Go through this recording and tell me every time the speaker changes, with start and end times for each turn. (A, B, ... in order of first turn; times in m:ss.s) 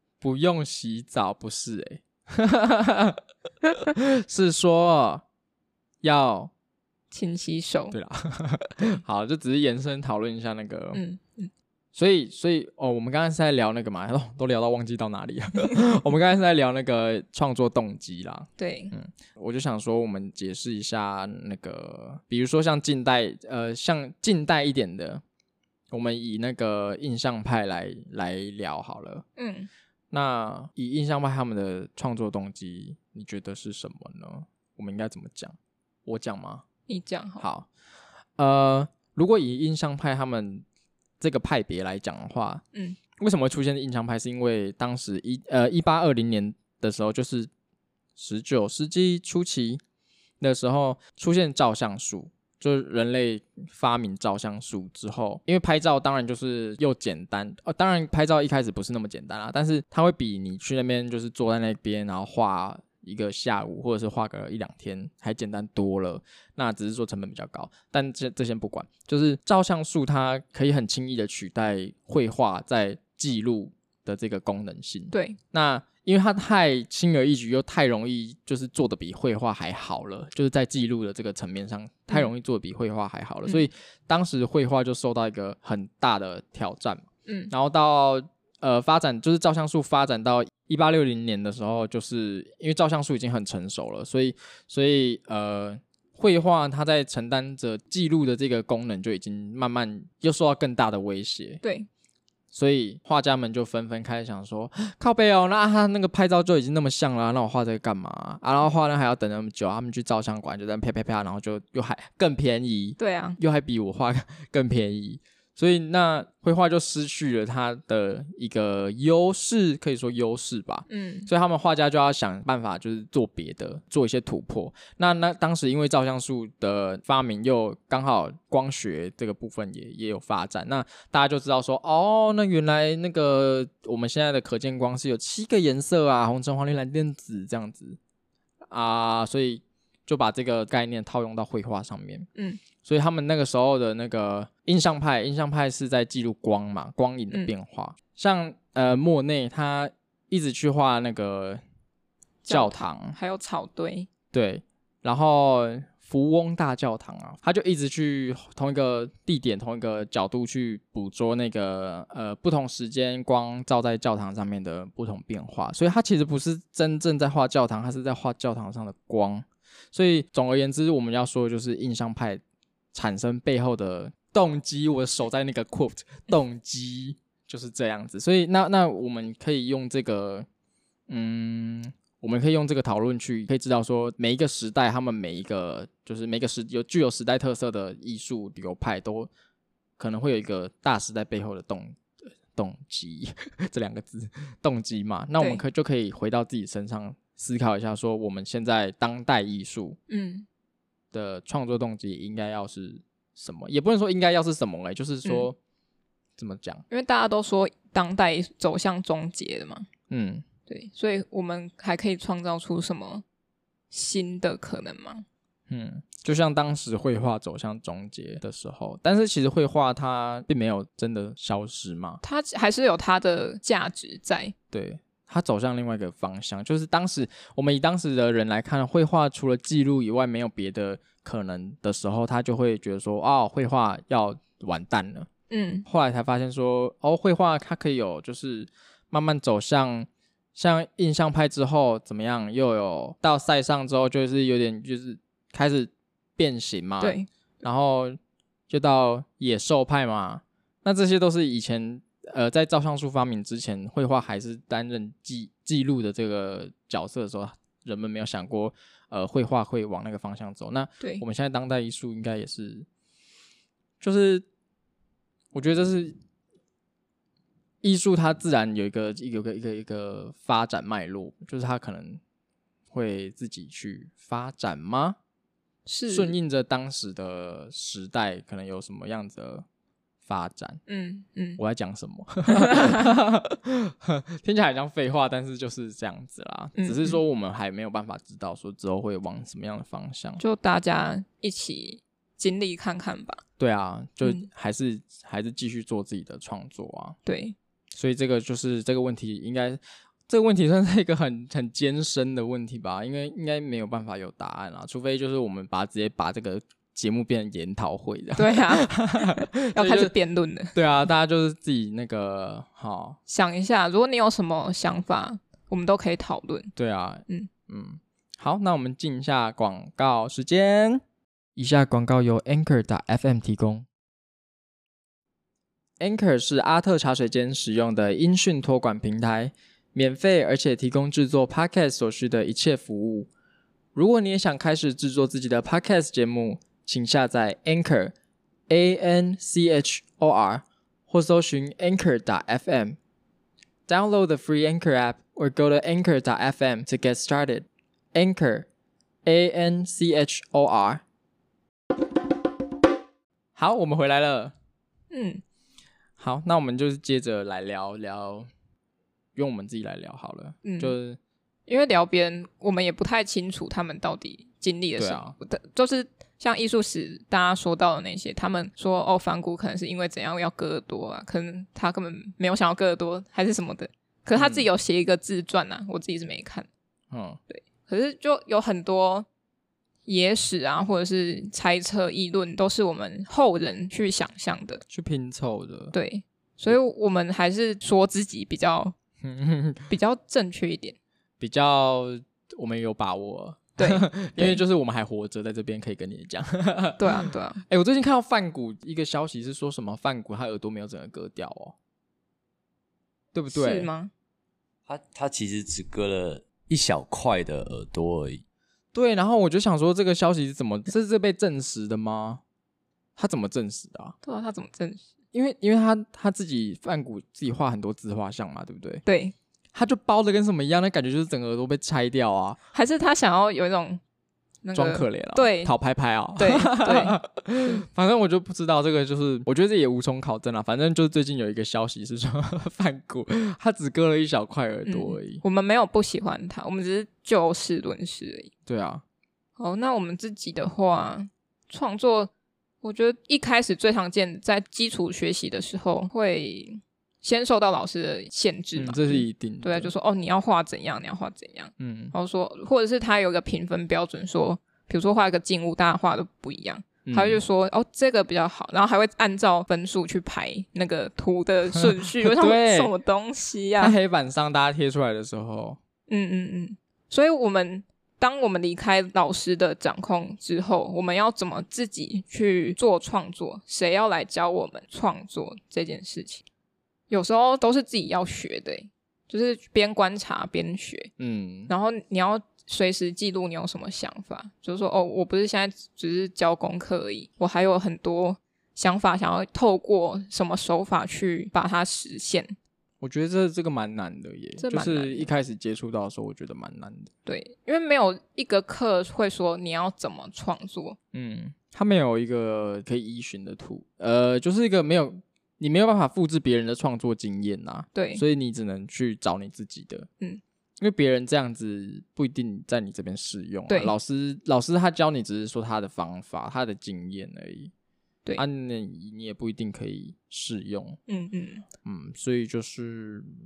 0:00.2-0:03.2 A
0:03.8-0:05.2 A
0:06.0-0:06.5 A
0:07.1-0:08.0 B
0:07.9-0:11.0 A
0:10.9-0:11.5 B
0:11.9-0:25.2 A
0:18.6-0:18.9 B
0:25.9-0:29.2 A
0:29.4-0:29.7 B
0:30.1-0:36.6 A
0:36.9-0:37.4 B
0:37.4-0:37.7 A
0:38.4-0:40.6 A
0:41.2-0:42.6 A
0:43.2-0:47.5 A
0:48.2-0:49.8 A
0:50.4-1:41.6 A
1:15.1-1:15.4 B
1:27.2-1:27.5 B
1:41.6-1:41.9 B
1:42.5-2:18.0 A
1:53.0-1:53.4 B
2:00.9-2:01.3 B
2:18.7-2:22.3 A
2:22.8-2:31.6 A
2:32.4-2:34.1 B
2:32.5-2:33.2 A
2:34.3-2:52.4 A
2:52.9-3:00.5 A
3:01.1-3:09.3 A
3:10.0-3:20.0 A
3:20.1-3:20.4 B
3:21.1-3:25.6 A
3:26.4-3:26.8 A
3:26.9-3:29.9 B
3:30.1-3:30.4 A
3:30.7-3:33.2 B
3:33.9-3:35.2 B
3:35.7-3:42.2 A
3:42.2-3:44.5 B
3:44.7-3:55.3 A
3:55.5-3:55.8 B
3:55.8-4:08.2 A
4:07.0-4:07.3 B
4:08.7-4:22.9 A
4:24.0-4:24.4 A
4:25.5-4:26.2 A
4:27.8-4:32.2 A
4:32.9-4:35.2 A
4:35.8-4:36.3 B
4:36.1-4:39.6 A
4:40.2-4:40.8 A
4:40.9-4:41.6 B
4:41.6-4:50.4 A
4:42.5-4:43.0 B
4:46.8-4:47.2 B
4:50.4-4:53.4 B
4:53.6-4:57.2 A
4:57.2-4:57.6 B
4:57.9-5:10.1 A
5:08.4-5:10.8 B
5:10.7-5:13.2 A
5:13.3-5:16.7 B
5:16.8-5:21.0 A
5:21.6-5:23.9 A
5:26.0-5:33.3 A
5:33.9-5:38.1 A
5:38.7-5:43.0 A
5:43.9-5:48.7 A
5:49.2-5:51.0 A
5:53.6-5:54.5 A
5:55.1-5:55.4 B
5:56.2-5:58.5 A
5:59.4-6:01.2 A
6:00.6-6:00.9 B
6:01.7-6:16.7 B
6:05.0-6:05.3 A
6:14.4-6:14.6 A
6:17.1-6:17.4 A
6:17.5-6:19.3 B
6:20.0-6:24.8 B
6:24.9-6:25.9 A
6:25.9-6:28.9 B
6:29.2-6:29.9 A
6:29.9-6:31.0 B
6:31.4-6:41.7 A
6:33.8-6:34.6 B
6:37.0-6:37.6 B
6:43.3-6:43.9 A
6:43.5-6:44.1 B
6:44.8-6:48.4 C
6:48.9-6:52.4 A
6:53.2-6:54.2 A
6:54.2-6:55.0 B
6:55.3-6:59.0 A
6:59.0-6:59.3 B
6:59.7-7:02.6 A
7:02.7-7:04.0 B
7:04.6-7:05.7 B
7:04.7-7:15.4 A
7:06.4-7:07.8 B
7:14.8-7:18.5 B
7:18.6-7:19.0 A
7:19.6-7:22.3 B
7:22.8-7:43.9 B
7:28.8-7:29.9 A
7:31.8-7:32.1 A
7:37.0-7:37.4 A
7:42.2-7:42.9 A
7:43.8-7:45.8 A
7:46.1-7:56.4 B
7:57.1-8:01.1 B
8:01.2-8:01.7 A
8:01.7-8:12.6 B
8:13.0-8:17.1 A
8:14.6-8:15.3 B
8:17.2-8:21.0 B
8:21.1-8:30.1 A
8:27.9-8:28.2 B
8:30.8-8:37.7 A
8:38.4-8:41.0 A
8:41.1-8:41.6 B
8:41.8-8:43.3 A